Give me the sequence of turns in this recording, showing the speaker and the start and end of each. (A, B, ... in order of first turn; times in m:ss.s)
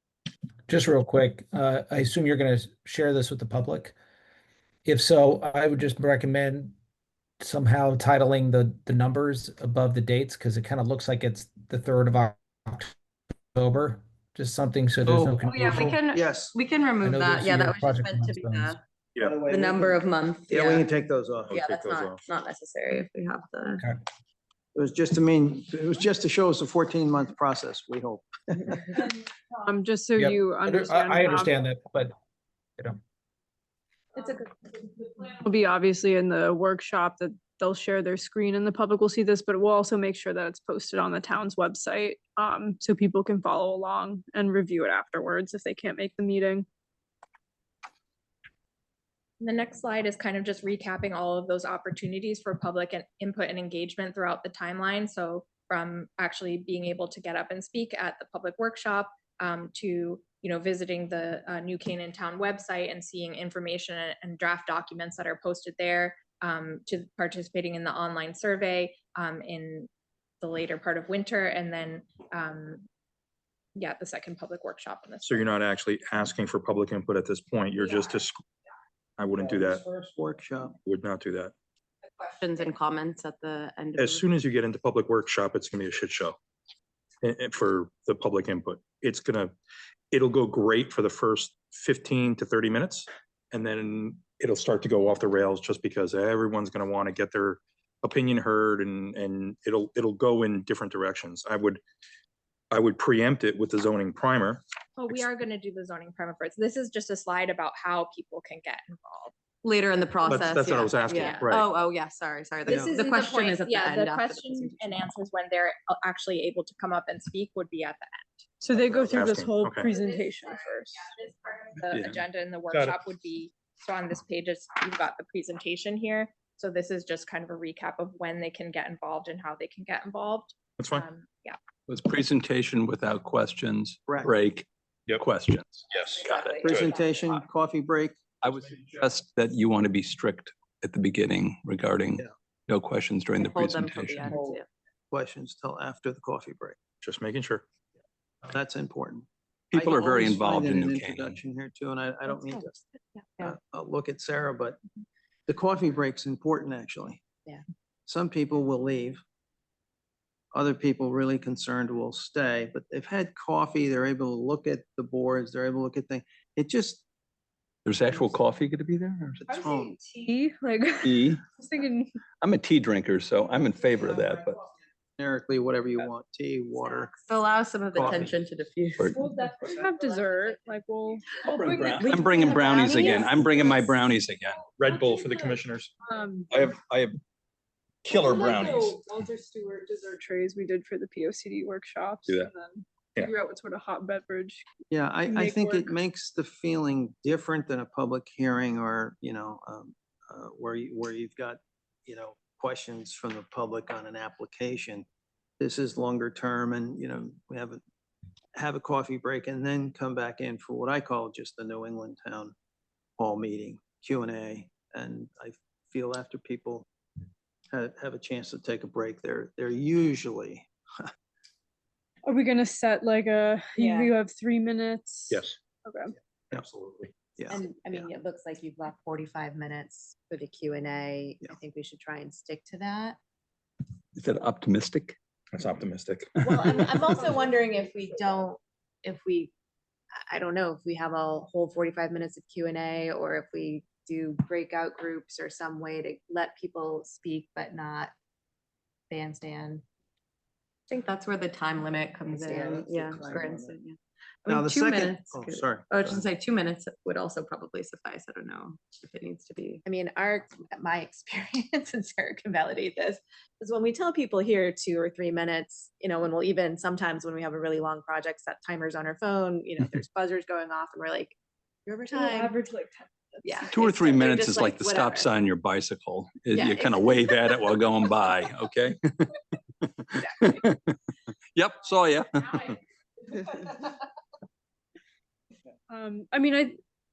0:00.7-0:04.0 A
0:04.9-0:06.7 A
0:07.4-0:13.0 A
0:13.5-0:16.0 A
0:15.1-0:15.4 B
0:15.4-0:18.8 C
0:16.1-0:16.6 B
0:17.0-0:18.8 A
0:19.2-0:19.4 D
0:19.2-0:21.6 B
0:19.4-0:20.9 C
0:21.5-0:22.2 D
0:21.5-0:23.8 C
0:24.7-0:29.0 B
0:29.6-0:31.5 E
0:30.2-0:32.1 A
0:34.1-0:34.5 E
0:35.1-0:46.7 E
0:49.4-1:09.9 F
1:10.4-1:12.9 F
1:13.8-1:15.5 F
1:15.2-1:18.4 D
1:19.2-1:19.8 D
1:19.3-1:20.8 B
1:20.8-1:21.5 D
1:22.2-1:24.2 C
1:24.0-1:26.4 D
1:27.2-1:29.5 D
1:30.1-1:41.8 D
1:42.7-1:45.3 D
1:45.0-1:49.3 F
1:49.6-1:54.8 C
1:50.2-1:51.7 D
1:52.7-1:58.5 F
1:58.6-2:01.1 E
1:58.8-1:59.9 D
1:59.9-2:11.6 F
2:01.9-2:02.2 D
2:02.7-2:03.0 D
2:10.8-2:11.1 D
2:11.9-2:14.7 G
2:14.1-2:14.3 B
2:15.2-2:16.7 G
2:15.9-2:17.0 D
2:16.6-2:18.2 B
2:18.4-2:24.4 G
2:23.4-2:24.7 C
2:25.1-2:26.8 B
2:27.0-2:27.7 D
2:28.4-2:34.8 B
2:29.7-2:31.4 G
2:32.3-2:32.6 H
2:33.2-2:33.5 H
2:35.5-2:37.2 B
2:38.1-2:39.2 B
2:40.5-2:47.0 B
2:47.8-2:49.5 G
2:49.4-2:49.9 B
2:49.5-2:52.1 E
2:51.0-2:51.4 G
2:52.4-2:54.6 G
2:55.2-2:57.2 B
2:56.8-2:59.2 C
2:57.9-2:58.4 B
2:59.1-3:03.9 E
2:59.9-3:00.6 H
3:01.4-3:04.6 G
3:02.0-3:03.4 C
3:04.8-3:05.9 D
3:04.9-3:06.5 E
3:06.5-3:07.2 D
3:08.0-3:09.0 D
3:08.1-3:14.6 E
3:14.9-3:25.1 B
3:15.2-3:15.9 E
3:25.6-3:27.8 B
3:28.6-3:32.5 B
3:33.2-3:36.9 B
3:37.7-3:41.1 B
3:42.2-3:46.2 E
3:43.8-3:44.1 H
3:45.3-3:45.6 D
3:46.5-3:47.4 D
3:47.4-3:48.1 B
3:47.5-3:53.2 H
3:54.2-3:55.2 G
3:55.5-3:56.3 D
3:56.4-3:59.5 H
4:00.3-4:08.1 H
4:09.1-4:09.8 H
4:10.9-4:19.8 C
4:12.3-4:13.8 B
4:12.3-4:13.6 H
4:14.5-4:16.3 B
4:19.8-4:31.3 H
4:31.8-4:32.6 H
4:32.1-4:33.8 E
4:33.4-4:35.3 H
4:33.7-4:41.0 G
4:36.5-4:37.0 H
4:41.5-4:42.8 G
4:43.3-4:43.6 E
4:45.9-4:46.8 E